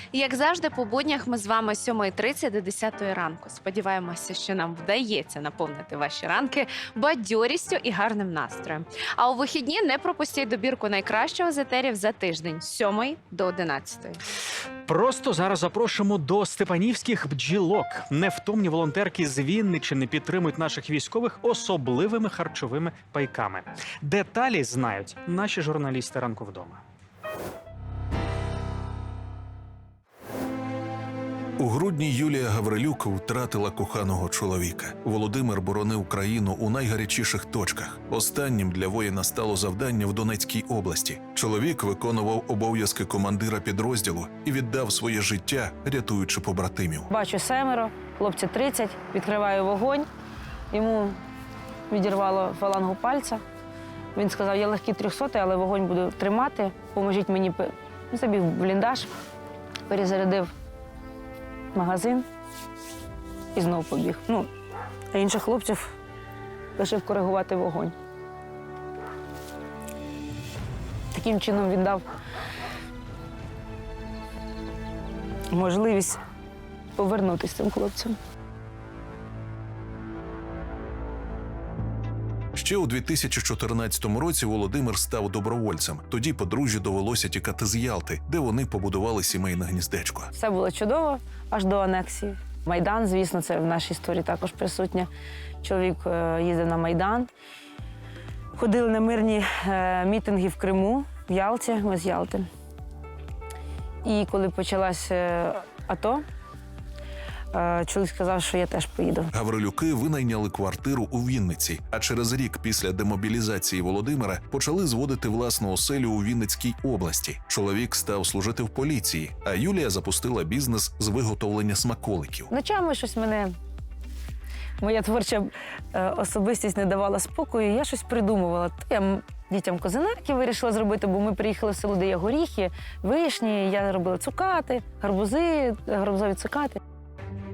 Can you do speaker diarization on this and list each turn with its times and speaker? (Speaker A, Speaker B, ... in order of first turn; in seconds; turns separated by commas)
Speaker A: 0.1-14.2, Speaker B: 14.9-26.8, Speaker C: 31.6-47.1, Speaker D: 47.1-50.1, Speaker D: 50.7-51.2, Speaker D: 51.9-53.4, Speaker D: 54.1-59.1, Speaker D: 59.9-60.5, Speaker D: 61.7-62.2, Speaker D: 63.5-64.5, Speaker D: 65.1-65.9, Speaker D: 66.8-68.0, Speaker D: 71.1-72.0, Speaker D: 75.5-76.2, Speaker D: 77.0-78.2, Speaker C: 82.5-90.3, Speaker D: 90.3-95.1, Speaker D: 95.6-97.3, Speaker D: 98.6-102.5, Speaker D: 104.0-106.2, Speaker D: 107.5-109.3, Speaker C: 109.3-122.5, Speaker D: 122.5-123.5, Speaker D: 124.8-136.8